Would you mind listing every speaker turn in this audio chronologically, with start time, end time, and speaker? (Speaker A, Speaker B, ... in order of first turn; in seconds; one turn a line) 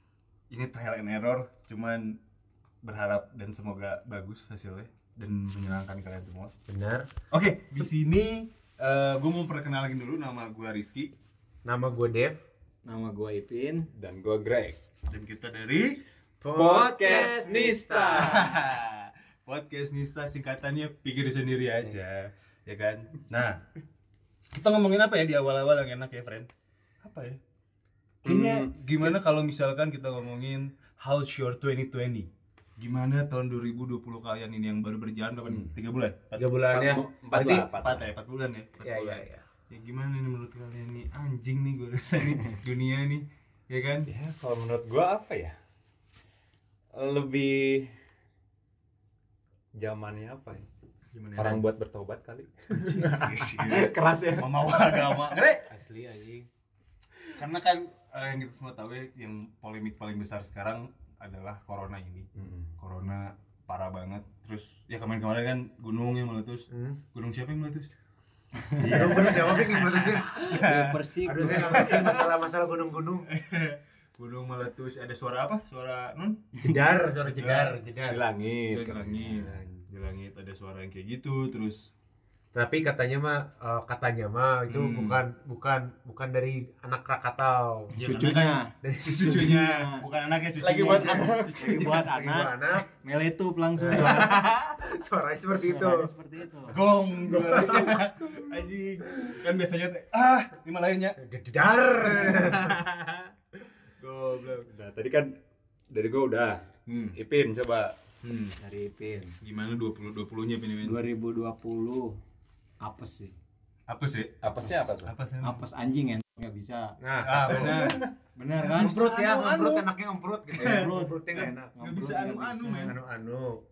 Speaker A: 0.5-2.2
Speaker A: 2.8-6.5
Speaker B: 6.7-7.1
Speaker A: 7.3-11.1
Speaker B: 11.7-12.4
Speaker C: 12.8-13.9
Speaker D: 13.9-14.8
Speaker A: 15.1-16.0
Speaker B: 16.4-18.1
Speaker D: 16.5-18.5
Speaker C: 16.9-18.5
Speaker A: 18.2-23.6
Speaker A: 24.5-26.5
Speaker A: 27.0-27.4
Speaker A: 28.2-36.5
Speaker D: 28.2-29.1
Speaker D: 35.5-35.7
Speaker B: 36.4-37.7
Speaker D: 36.7-38.1
Speaker A: 37.8-44.1
Speaker B: 38.8-39.5
Speaker D: 44.1-45.6
Speaker D: 46.9-48.0
Speaker D: 49.7-50.7
Speaker A: 51.1-51.6
Speaker D: 51.4-55.2
Speaker A: 52.7-55.7
Speaker B: 55.7-56.5
Speaker A: 57.3-62.3
Speaker D: 62.4-62.7
Speaker A: 62.8-67.9
Speaker B: 66.7-67.0
Speaker A: 68.8-72.3
Speaker B: 68.8-70.3
Speaker C: 69.0-69.3
Speaker C: 70.3-72.0
Speaker B: 71.2-73.3
Speaker A: 73.3-76.5
Speaker B: 76.5-78.2
Speaker A: 77.3-77.8
Speaker D: 78.1-79.6
Speaker A: 78.7-81.9
Speaker B: 82.5-88.0
Speaker A: 84.7-85.2
Speaker A: 88.0-88.6
Speaker C: 88.0-88.7
Speaker B: 88.8-89.7
Speaker A: 89.1-92.0
Speaker C: 89.2-90.0
Speaker B: 90.6-92.9
Speaker C: 90.9-94.5
Speaker B: 93.8-96.1
Speaker C: 95.5-96.8
Speaker A: 96.7-101.2
Speaker B: 97.2-98.3
Speaker B: 101.2-102.8
Speaker A: 102.1-102.8
Speaker A: 104.0-104.7
Speaker D: 104.7-105.4
Speaker D: 105.9-108.0
Speaker A: 106.9-107.2
Speaker A: 108.2-108.6
Speaker C: 108.6-109.4
Speaker A: 109.4-111.0
Speaker C: 110.8-112.2
Speaker C: 112.8-113.4
Speaker A: 113.9-115.7
Speaker D: 114.4-115.1
Speaker C: 115.4-117.0
Speaker B: 117.0-118.0
Speaker A: 117.2-118.1
Speaker C: 117.5-119.1
Speaker A: 118.6-119.9
Speaker B: 118.7-121.7
Speaker A: 120.5-123.0
Speaker C: 120.6-123.0
Speaker B: 122.8-123.6